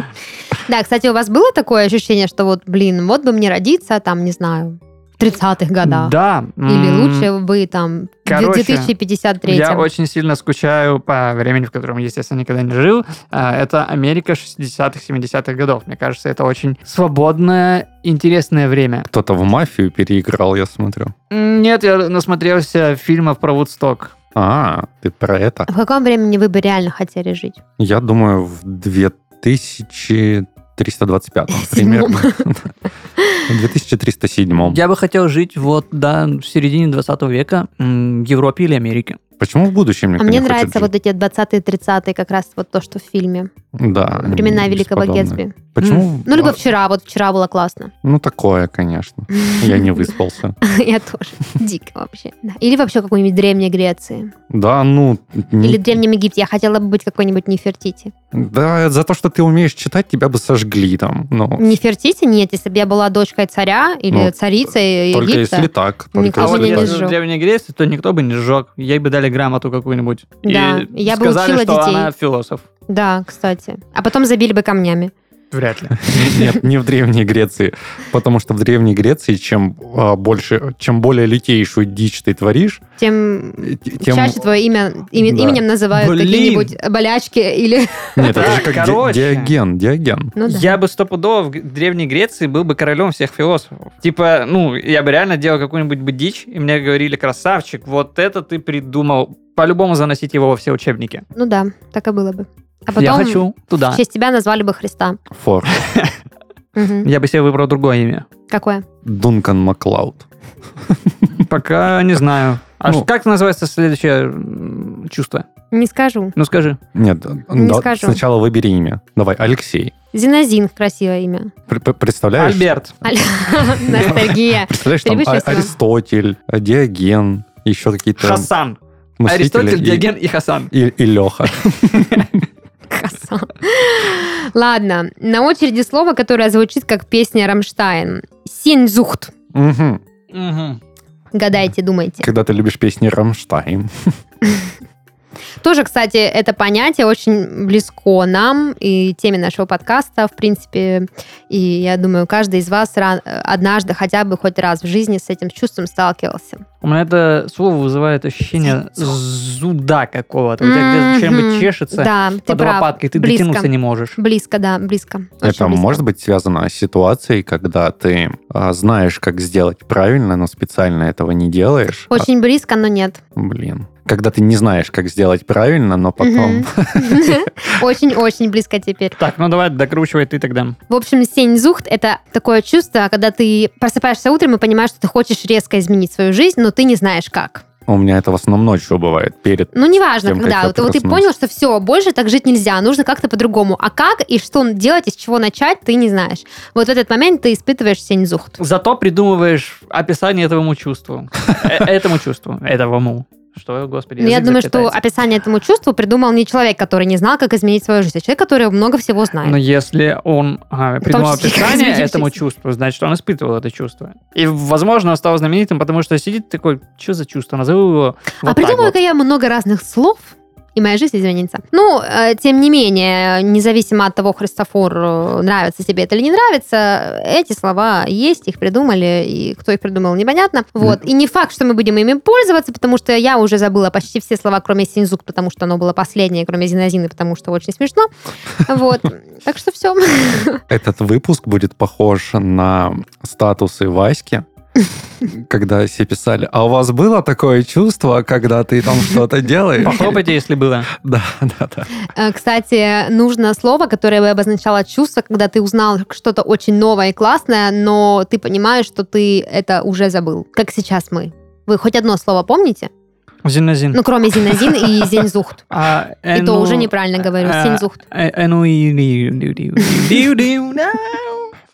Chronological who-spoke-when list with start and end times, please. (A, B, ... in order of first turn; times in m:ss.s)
0:00.6-0:06.1 A
0:05.8-0:07.3 B
0:06.6-0:09.9 A
0:08.3-0:08.9 B
0:09.5-0:19.1 B
0:19.1-0:21.1 C
0:21.3-0:24.1 B
0:24.3-0:25.7 C
0:25.7-0:27.6 A
0:27.8-0:32.7 C
0:31.5-0:32.4 A
0:33.4-0:34.8 C
0:34.6-0:39.2 B
0:39.4-0:40.9 C
0:40.2-0:43.5 A
0:43.7-0:46.6 C
0:44.2-0:45.6 A
0:45.8-0:46.1 B
0:46.2-0:47.9 A
0:48.0-0:50.6 C
0:49.3-0:50.0 A
0:50.6-0:54.3 A
0:54.5-0:55.8 C
0:55.6-0:58.1 A
0:58.3-1:01.6 C
1:01.6-1:07.2 A
1:05.1-1:07.0 C
1:06.4-1:12.6 B
1:10.4-1:12.1 A
1:12.9-1:15.1 A
1:15.5-1:16.5 B
1:16.0-1:22.8 C
1:23.0-1:28.5 A
1:23.6-1:24.4 C
1:25.2-1:25.6 C
1:25.9-1:26.7 B
1:28.2-1:30.3 C
1:28.2-1:29.5 B
1:30.4-1:30.8 A
1:30.4-1:41.2 B
1:41.4-1:45.2 A
1:43.0-1:44.0 B
1:45.3-1:45.8 C
1:45.7-1:46.1 B
1:46.8-1:47.1 A
1:47.0-1:48.3 B
1:48.5-1:48.8 A
1:49.0-1:50.2 C
1:51.3-1:55.5 B
1:55.7-1:56.3 A
1:56.4-1:56.8 B
1:56.9-1:59.9 C
1:57.5-1:58.2 A
2:00.1-2:01.5 A
2:01.7-2:02.7 C
2:02.4-2:03.0 B
2:03.0-2:05.7 A
2:03.9-2:08.5 C
2:08.2-2:10.7 B
2:09.2-2:10.1 C
2:10.7-2:12.4 C
2:12.9-2:19.3 A
2:19.5-2:20.0 C
2:20.3-2:20.8 B
2:21.3-2:22.3 A
2:22.2-2:24.1 C
2:25.6-2:36.6 A
2:36.8-2:44.2 B
2:40.6-2:46.0 A
2:45.4-2:52.3 C
2:52.1-2:53.2 A
2:53.4-2:57.6 C
2:56.2-2:59.2 A
2:59.2-3:00.8 B
3:00.9-3:07.6 A
3:07.9-3:11.2 C
3:09.7-3:18.6 A
3:18.6-3:25.0 B
3:24.2-3:29.6 A
3:29.4-3:38.9 B
3:31.0-3:32.3 A
3:38.4-3:58.1 A
3:58.6-4:00.6 A
4:00.7-4:04.4 C
4:05.2-4:10.2 C
4:09.8-4:10.9 B
4:10.9-4:11.9 C
4:12.0-4:22.9 A
4:23.4-4:31.5 B
4:23.9-4:25.6 A
4:26.3-4:28.0 A
4:29.8-4:30.1 A